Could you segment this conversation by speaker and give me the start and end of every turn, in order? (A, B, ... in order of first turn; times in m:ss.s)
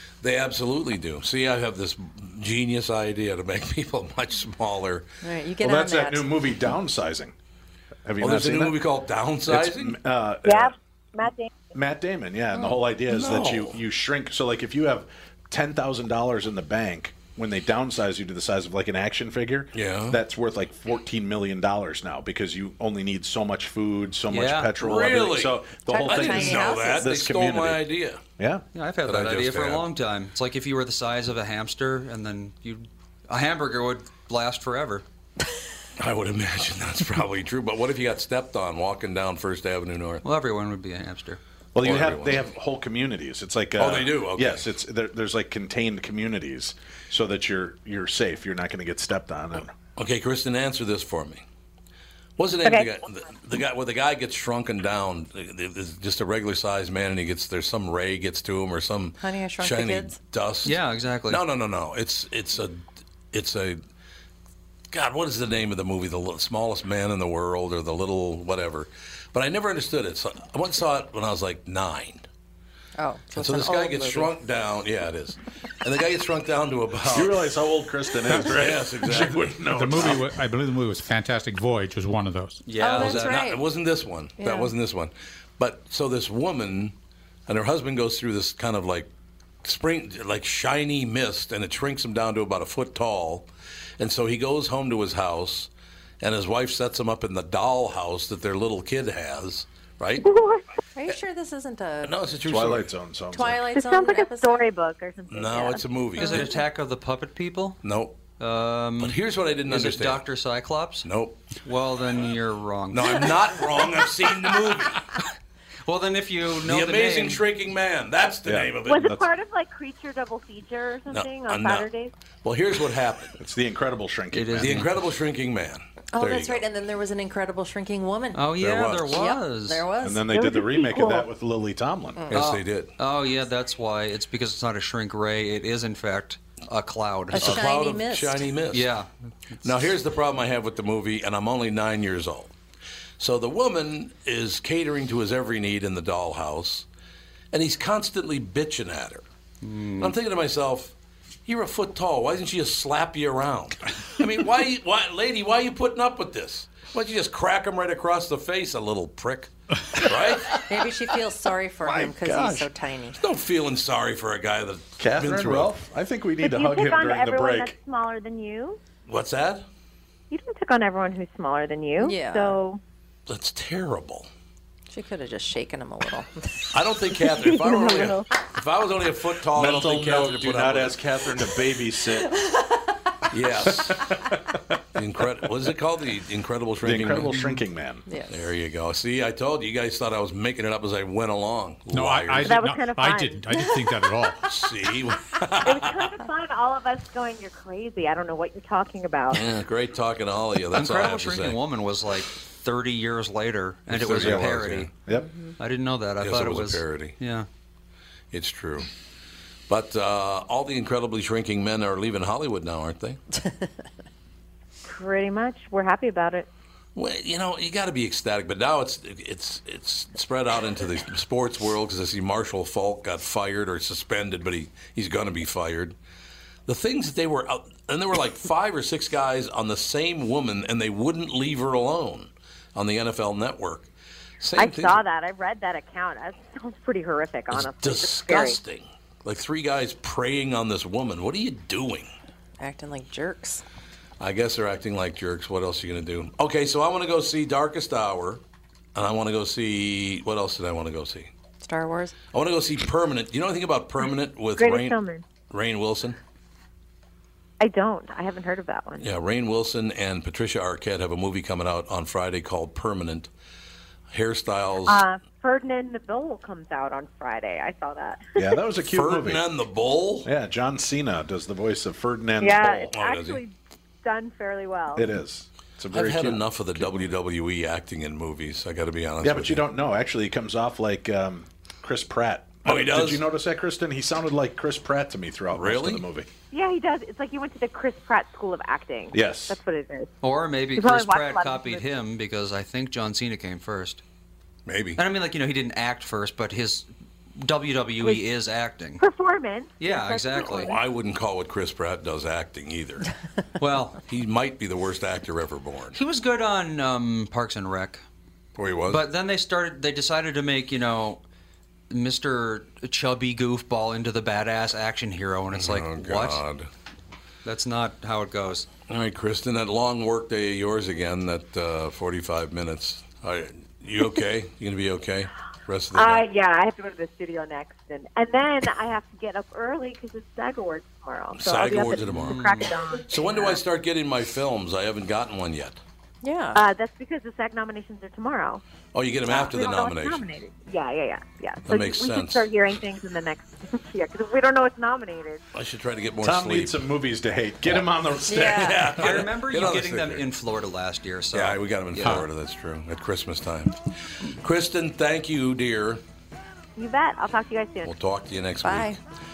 0:00.2-0:05.1 A
0:05.2-0:06.5 B
0:05.6-0:07.3 C
0:08.0-0:08.8 C
0:08.2-0:10.0 A
0:09.5-0:10.7 C
0:10.4-0:11.5 D
0:11.7-0:28.6 C
0:12.5-0:12.8 B
0:13.1-0:13.8 A
0:19.7-0:20.2 A
0:24.3-0:24.7 E
0:24.8-0:28.2 A
0:25.9-0:27.1 B
0:28.7-0:35.0 E
0:29.0-0:29.8 A
0:36.0-0:40.2 A
0:40.2-0:41.4 E
0:41.7-0:49.7 C
0:41.8-0:42.5 A
0:43.8-0:44.7 A
0:50.0-0:51.4 A
0:52.4-1:03.8 A
0:59.2-1:00.2 B
1:00.6-1:01.4 E
1:04.9-1:12.3 A
1:13.0-1:14.3 B
1:13.4-1:17.5 A
1:17.1-1:20.4 C
1:18.3-1:19.6 A
1:19.7-1:22.6 F
1:22.6-1:23.5 E
1:22.8-1:23.6 B
1:22.8-1:26.9 A
1:24.4-1:24.7 B
1:27.5-1:29.1 A
1:29.6-1:33.5 A
1:34.0-1:35.7 A
1:36.2-1:40.3 A
1:40.2-1:40.6 D
1:40.9-1:42.1 B
1:42.0-1:42.9 A
1:42.4-1:43.6 C
1:43.3-1:44.6 B
1:43.7-1:45.8 D
1:45.3-1:46.6 A
1:46.2-1:47.8 E
1:46.2-1:46.5 B
1:47.8-1:48.2 A
1:48.4-1:51.1 E
1:49.0-1:50.2 A
1:51.0-1:51.4 A
1:51.6-1:53.6 E
1:52.9-1:55.2 A
1:55.8-1:57.4 E
1:56.6-1:59.2 A
1:58.4-1:59.2 C
1:58.8-2:02.1 D
2:01.1-2:01.9 A
2:02.4-2:03.4 A
2:03.4-2:04.9 C
2:04.3-2:04.9 E
2:04.6-2:06.6 A
2:06.1-2:10.3 B
2:08.3-2:09.8 E
2:08.6-2:09.1 A
2:10.0-2:12.3 C
2:10.3-2:11.3 D
2:12.3-2:12.9 A
2:12.3-2:17.6 E
2:17.3-2:18.5 B
2:17.4-2:18.9 A
2:18.7-2:19.1 E
2:19.6-2:22.5 A
2:23.2-2:26.8 A
2:27.5-2:29.2 A
2:29.6-2:30.2 E
2:30.0-2:30.9 A
2:31.5-2:40.7 A
2:40.6-2:43.2 B
2:41.9-2:42.6 C
2:43.1-2:45.7 A
2:45.0-2:47.8 C
2:46.4-2:48.8 D
2:49.1-2:49.6 A
2:50.3-2:52.8 D
2:52.0-2:52.6 B
2:53.3-2:54.3 A
2:54.9-2:56.7 B
2:56.7-3:01.0 A
2:57.3-2:58.3 D
2:59.5-3:02.4 C
3:03.3-3:04.3 A
3:03.7-3:04.3 C
3:04.9-3:07.5 A
3:06.8-3:08.0 C
3:08.1-3:08.3 B
3:08.3-3:12.6 A
3:11.9-3:14.5 F
3:12.4-3:14.3 D
3:14.4-3:16.1 A
3:15.6-3:19.4 D
3:19.3-3:21.6 A
3:20.7-3:24.9 E
3:23.9-3:24.9 A
3:24.1-3:24.5 C
3:25.1-3:25.5 B
3:25.6-3:27.5 E
3:26.2-3:27.2 A
3:28.3-3:28.9 A
3:29.7-3:33.2 A
3:34.8-3:36.5 D
3:36.9-3:45.9 A
3:46.7-3:53.9 A
3:54.4-3:55.0 A
3:54.6-3:58.6 D
3:57.5-4:02.1 A
4:02.6-4:03.6 B
4:04.2-4:08.4 A
4:08.9-4:11.3 A
4:11.6-4:12.1 B
4:12.3-4:15.0 A
4:14.6-4:15.2 D
4:15.5-4:16.2 A
4:17.6-4:19.0 D
4:19.0-4:23.3 A
4:24.1-4:25.0 A
4:24.8-4:28.5 D
4:28.4-4:29.4 C
4:28.8-4:30.3 A
4:30.2-4:32.8 C
4:32.4-4:35.1 D
4:32.9-4:33.4 A
4:34.9-4:37.1 C
4:35.9-4:39.6 A
4:39.2-4:46.3 C
4:42.6-4:43.3 A
4:45.5-4:46.0 A
4:46.5-4:50.1 D
4:49.1-4:49.6 C
4:50.2-4:54.0 E
4:50.7-4:51.8 D
4:54.6-4:55.0 A
4:55.0-4:59.0 E
4:59.0-5:00.8 D
4:59.8-5:00.7 E
5:00.4-5:03.1 A
5:03.6-5:04.0 E
5:04.1-5:06.0 A
5:05.9-5:08.0 E
5:08.6-5:09.0 A
5:08.9-5:11.2 E
5:11.9-5:16.4 E
5:15.5-5:16.7 A
5:17.4-5:18.7 E
5:18.9-5:26.2 A
5:25.9-5:33.6 D
5:31.4-5:32.5 A
5:32.1-5:32.8 E
5:33.1-5:35.8 A
5:36.2-5:36.6 B
5:36.5-5:38.6 D
5:38.9-5:40.2 A
5:39.2-5:45.4 D
5:41.7-5:42.5 A
5:45.5-5:46.8 A
5:46.2-5:48.9 C
5:48.3-5:49.0 B
5:48.4-5:50.2 A
5:49.0-5:52.2 E
5:51.3-5:56.0 A
5:52.0-5:52.3 F
5:56.8-5:57.9 D
5:57.8-5:59.0 A
5:58.6-5:59.0 B